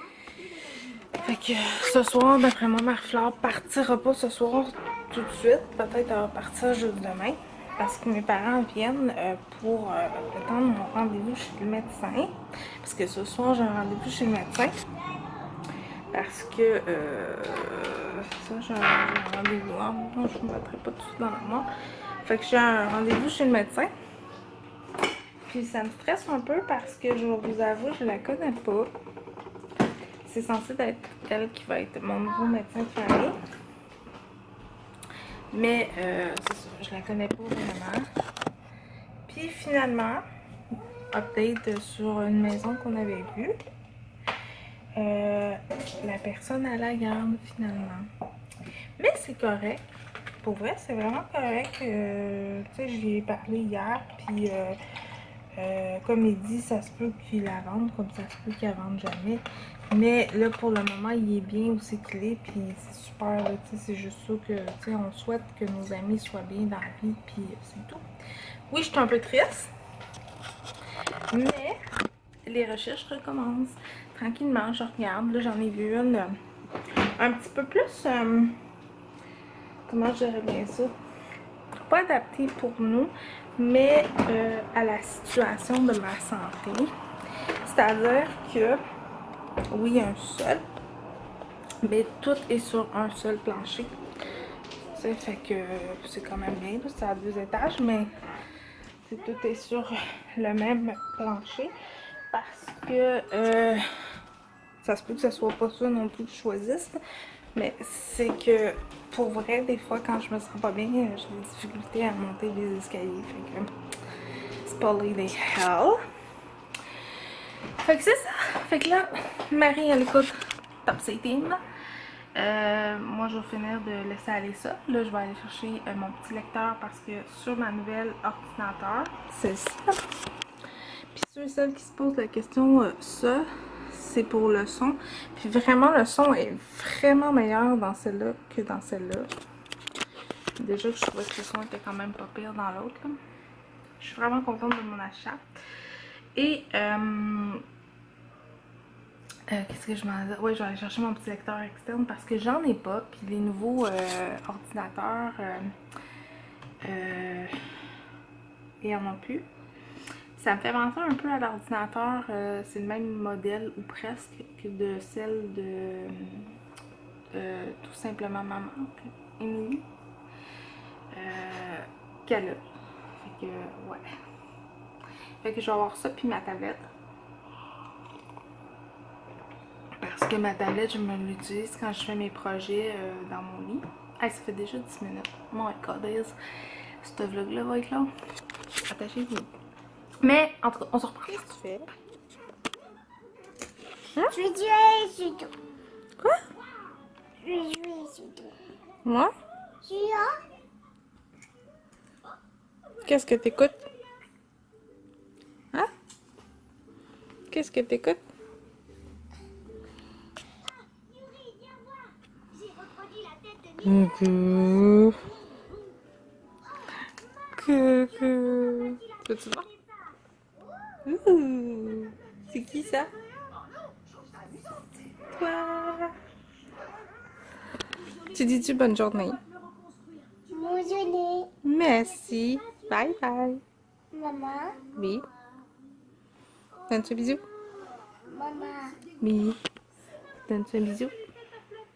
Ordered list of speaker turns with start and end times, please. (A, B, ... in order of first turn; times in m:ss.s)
0:01.2-0:14.8 A
0:16.1-0:21.7 A
0:22.2-0:23.9 A
0:25.5-0:28.9 A
0:30.2-0:33.4 A
0:35.5-0:38.1 A
0:39.3-0:40.3 A
0:41.1-0:43.6 A
0:45.0-0:48.1 A
0:49.0-0:49.8 A
0:50.4-0:54.8 A
0:55.6-1:08.0 A
1:08.7-1:09.7 A
1:11.3-1:11.8 A
1:12.5-1:16.4 A
1:17.2-1:18.6 A
1:19.9-1:21.0 A
1:21.9-1:26.9 A
1:27.6-1:28.8 A
1:29.7-1:30.7 A
1:31.8-1:33.9 A
1:34.9-1:38.1 A
1:39.0-1:41.8 A
1:42.3-1:43.9 A
1:44.8-1:47.0 A
1:47.6-1:53.7 A
1:54.6-1:56.0 A
1:57.8-2:01.6 A
2:02.4-2:10.0 A
2:11.1-2:19.3 A
2:20.6-2:23.2 A
2:24.0-2:25.5 A
2:26.4-2:27.6 A
2:29.5-2:35.8 A
2:36.8-2:37.6 A
2:38.8-2:39.5 A
2:40.4-2:46.6 A
2:47.3-2:49.9 A
2:51.1-2:52.6 A
2:53.2-2:54.1 A
2:55.4-2:56.8 A
3:00.0-3:06.4 A
3:07.0-3:08.1 A
3:08.9-3:09.5 A
3:10.2-3:11.9 A
3:14.3-3:15.5 B
3:17.4-3:18.5 B
3:19.0-3:19.3 A
3:19.8-3:20.4 B
3:23.0-3:23.9 A
3:27.5-3:28.2 A
3:33.8-3:35.2 A
3:37.6-3:39.7 A
3:41.0-3:43.1 A
3:45.3-3:46.2 A
3:48.3-3:49.4 A
3:50.5-3:51.5 B
3:51.6-3:53.6 A
3:54.1-3:54.9 B
3:55.0-3:55.3 A
3:56.9-3:57.4 A
3:58.2-3:59.0 B
3:59.2-3:59.6 A
4:00.5-4:01.2 A